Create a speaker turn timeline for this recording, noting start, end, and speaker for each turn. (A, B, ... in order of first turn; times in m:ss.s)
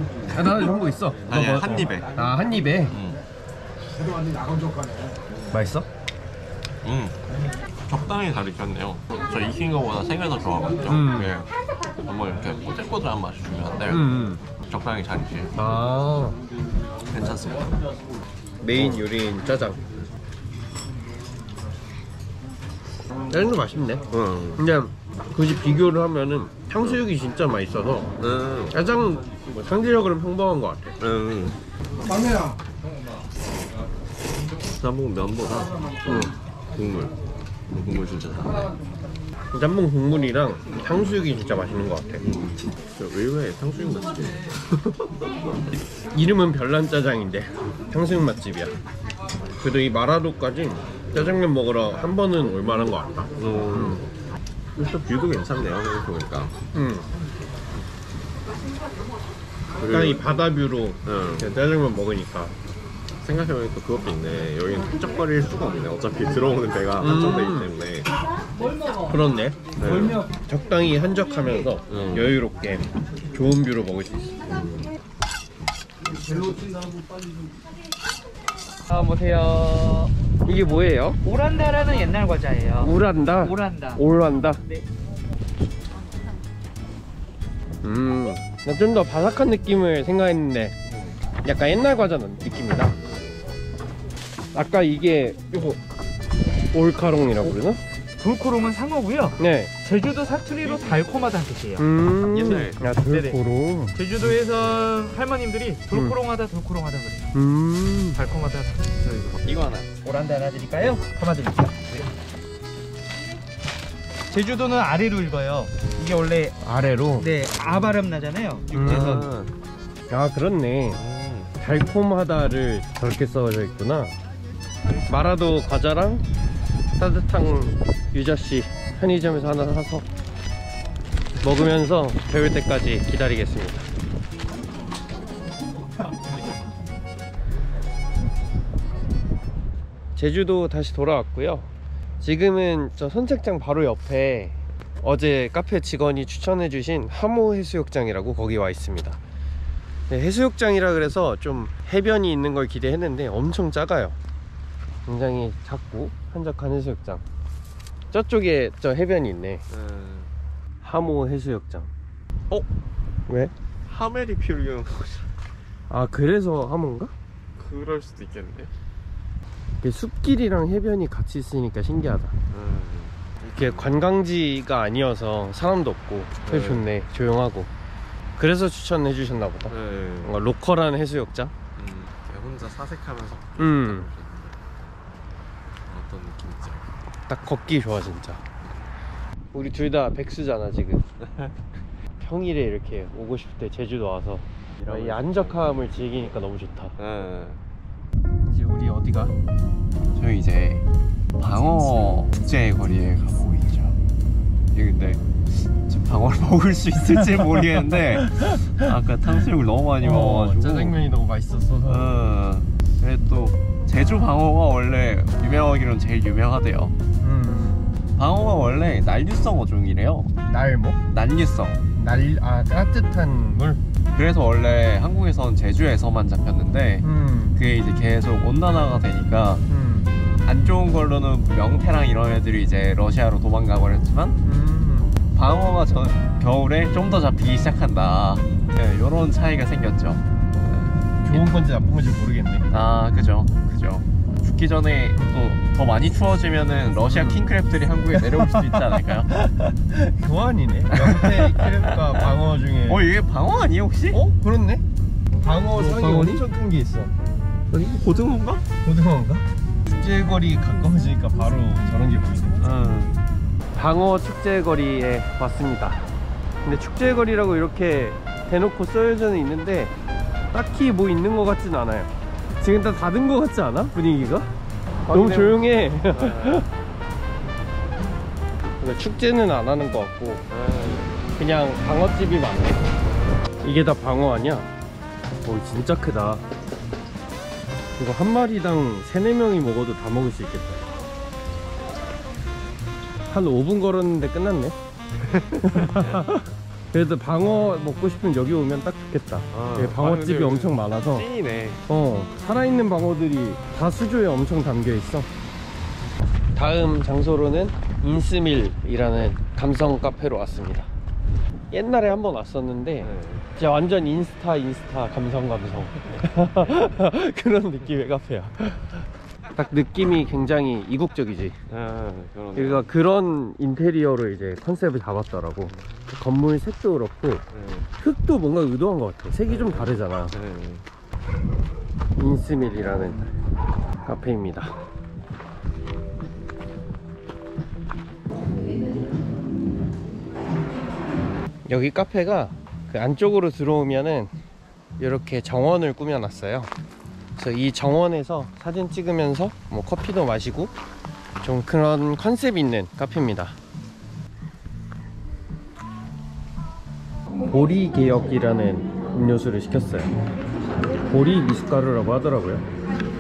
0:00.3-0:03.0 A
0:01.3-0:02.1 B
0:02.9-0:03.2 B
0:05.5-0:05.9 A
0:06.8-0:07.2 B
0:07.9-0:11.5 B
0:10.9-0:11.4 A
0:12.0-0:14.1 B
0:13.9-0:14.4 A
0:14.6-0:15.6 B
0:15.6-0:16.4 A
0:17.1-0:17.7 B
0:18.6-0:19.8 A
0:18.7-0:19.1 B
0:23.3-0:24.0 A
0:24.1-0:24.6 B
0:24.6-0:28.2 A
0:28.2-0:28.8 B
0:28.7-0:31.0 A
0:31.0-0:31.6 B
0:34.8-0:36.1 B
0:36.0-0:36.4 A
0:36.7-0:37.1 B
0:37.7-0:38.7 B
0:39.5-0:42.3 A
0:42.2-0:44.6 B
0:46.1-0:48.7 A
0:49.6-0:54.0 A
0:53.4-0:54.1 B
0:54.8-0:56.6 B
0:56.7-0:57.1 A
0:59.8-1:00.2 B
0:59.9-1:02.6 A
1:01.0-1:01.5 B
1:03.2-1:08.1 B
1:07.0-1:07.7 A
1:09.1-1:14.4 A
1:09.8-1:10.2 B
1:11.9-1:12.3 B
1:14.5-1:14.9 B
1:18.9-1:20.1 C
1:20.4-1:21.2 A
1:21.2-1:24.0 C
1:22.8-1:24.6 A
1:27.8-1:30.8 A
1:31.4-1:33.0 A
1:34.5-1:35.8 A
1:36.7-1:37.8 A
1:38.2-1:41.9 C
1:39.4-1:39.8 A
1:40.6-1:41.0 B
1:41.8-1:44.3 A
1:42.3-1:42.8 B
1:42.5-1:43.4 C
1:43.9-1:47.3 C
1:45.9-1:46.2 A
1:47.3-1:48.2 A
1:48.1-1:52.0 C
1:49.4-1:49.9 B
1:54.3-1:56.6 C
1:56.6-1:57.3 A
1:57.2-1:59.3 C
1:58.7-1:59.5 B
1:58.7-1:59.3 A
2:00.1-2:01.0 A
2:01.0-2:01.5 B
2:01.6-2:04.2 A
2:05.1-2:06.2 A
2:07.0-2:10.0 A
2:11.4-2:13.8 A
2:20.2-2:21.7 A
2:22.2-2:29.2 A
2:30.1-2:34.2 A
2:35.1-2:37.2 A
2:38.1-2:39.6 A
2:39.7-2:40.3 B
2:40.8-2:41.9 A
2:43.3-2:43.5 A
2:43.9-2:45.3 B
2:45.9-2:47.1 A
2:47.6-2:48.7 B
2:49.8-2:52.3 A
2:52.5-2:54.0 B
2:53.6-2:57.7 A
2:56.4-2:56.8 B
2:58.4-3:01.5 A
2:59.7-3:00.4 B
3:01.8-3:04.7 B
3:03.6-3:04.1 A
3:05.9-3:06.8 B
3:07.3-3:08.4 A
3:09.5-3:11.0 A
3:12.2-3:17.0 A
3:14.8-3:15.9 B
3:17.0-3:17.6 B
3:18.4-3:19.3 A
3:20.1-3:20.8 B
3:21.4-3:24.0 B
3:24.7-3:31.0 B
3:30.0-3:32.2 A
3:31.9-3:37.0 B
3:37.2-3:37.8 A
3:38.2-3:40.3 B
3:40.5-3:41.0 A
3:41.1-3:41.8 B
3:42.0-3:43.8 A
3:44.1-3:49.6 B
3:47.0-3:47.6 A
3:49.7-3:50.1 A
3:50.4-3:54.4 B
3:54.4-3:55.2 A
3:55.3-4:01.6 B
4:01.2-4:02.7 A
4:02.7-4:09.3 B
4:07.1-4:07.5 A
4:09.4-4:13.1 A
4:10.9-4:12.3 B
4:12.9-4:14.2 B
4:14.1-4:14.8 A
4:15.4-4:17.1 A
4:15.7-4:16.4 B
4:17.7-4:18.6 B
4:18.8-4:22.7 A
4:22.6-4:23.2 B
4:23.7-4:26.1 A
4:26.6-4:29.9 A
4:30.5-4:34.5 A
4:35.1-4:36.7 B
4:35.1-4:36.7 A
4:38.8-4:40.4 A
4:40.5-4:41.2 B
4:41.4-4:42.9 A
4:43.6-4:44.7 A
4:45.4-4:46.4 A
4:48.0-4:50.8 A
4:53.3-4:54.8 A
4:55.3-4:56.4 B
4:55.7-5:01.3 A
4:59.5-5:01.8 B
5:01.9-5:05.3 A
5:06.6-5:10.9 A
5:11.7-5:21.6 A
5:13.0-5:13.5 B
5:21.7-5:22.9 B
5:22.6-5:27.4 A
5:25.7-5:26.2 B
5:27.5-5:27.9 B
5:28.0-5:30.4 A
5:29.4-5:30.8 B
5:32.2-5:33.3 A
5:34.0-5:34.8 A
5:41.7-5:44.3 A
5:45.0-5:46.7 A
5:47.4-5:50.7 A
5:51.4-5:53.6 A
5:57.4-6:00.1 A
6:01.1-6:02.6 A